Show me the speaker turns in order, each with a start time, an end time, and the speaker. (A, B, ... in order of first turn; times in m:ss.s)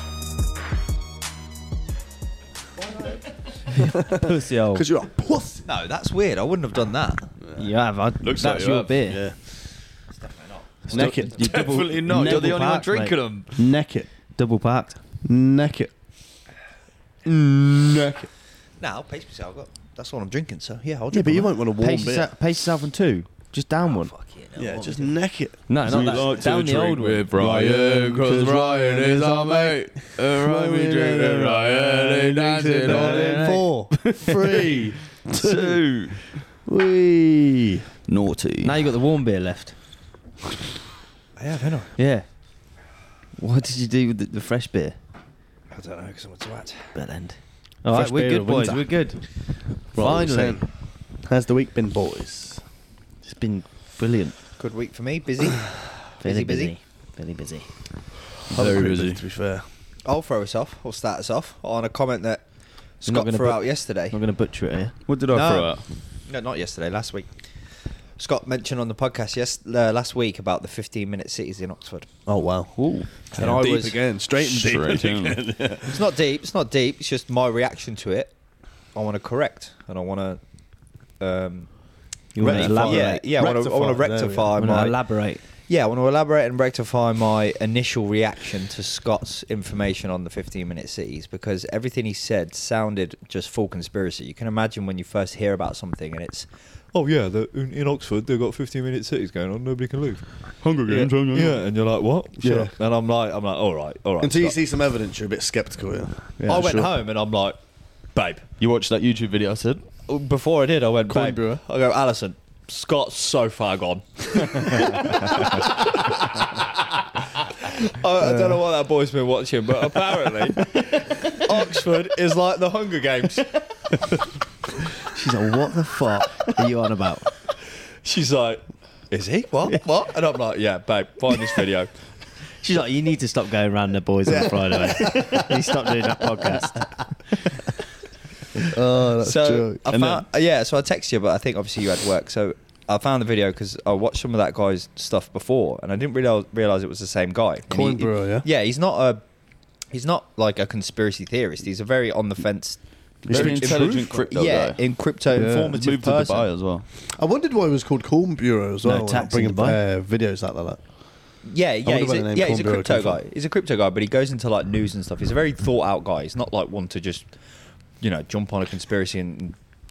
0:03.8-0:05.6 A
0:04.0-0:04.8 B
0:05.6-0:07.3 C
0:07.5-0:09.2 B
0:08.2-0:09.3 D
0:10.1-0:11.5 C
0:10.9-0:11.4 A
0:10.9-0:13.2 B
0:11.0-0:13.5 D
0:13.6-0:14.1 A
0:14.4-0:15.0 B
0:15.2-0:15.9 A
0:17.2-0:18.3 A
0:18.8-0:21.5 C
0:21.1-0:22.3 A
0:21.8-0:24.1 B
0:23.8-0:25.1 C
0:24.6-0:25.6 A
0:25.7-0:27.8 B
0:25.8-0:33.6 D
0:27.4-0:35.8 A
0:32.8-0:34.8 B
0:35.2-0:36.4 D
0:36.4-0:37.8 A
0:38.1-0:38.8 D
0:38.6-0:39.8 B
0:41.4-0:41.9 C
0:42.0-0:42.2 B
0:43.4-0:45.0 B
0:45.7-0:46.9 C
0:46.9-0:50.6 B
0:47.9-0:48.9 A
0:49.9-0:50.7 A
0:51.2-0:52.6 A
0:53.2-0:54.4 B
0:54.6-0:56.7 C
0:56.2-0:57.7 B
0:58.5-0:59.2 D
0:58.5-0:59.7 A
1:00.0-1:02.4 C
1:03.0-1:04.2 C
1:03.0-1:05.0 B
1:05.1-1:05.9 D
1:05.3-1:07.3 C
1:08.2-1:12.1 C
1:12.2-1:16.0 A
1:12.8-1:13.6 D
1:13.3-1:14.0 C
1:14.4-1:15.4 D
1:15.8-1:18.3 C
1:18.9-1:20.4 C
1:21.2-1:40.3 C
1:22.3-1:23.3 B
1:22.4-1:24.8 A
1:24.5-1:25.4 B
1:40.6-1:41.6 D
1:40.9-1:44.6 C
1:42.4-1:42.7 A
1:44.2-1:46.9 A
1:46.4-1:46.9 B
1:46.5-1:47.6 C
1:48.1-1:48.4 C
1:48.6-1:49.8 D
1:50.1-1:56.8 C
1:51.1-1:51.6 A
1:57.4-2:04.2 C
1:58.2-1:58.6 A
2:05.1-2:07.3 B
2:08.0-2:11.9 C
2:12.6-2:16.9 B
2:14.2-2:15.5 A
2:18.6-2:19.8 A
2:19.2-2:29.2 C
2:19.9-2:20.2 D
2:27.7-2:28.4 A
2:29.9-2:36.5 C
2:33.2-2:34.8 D
2:33.3-2:34.2 A
2:35.3-2:35.8 A
2:35.5-2:36.8 D
2:37.1-2:40.8 A
2:38.8-2:39.8 B
2:41.4-2:47.3 C
2:41.8-2:43.2 A
2:48.0-2:49.6 C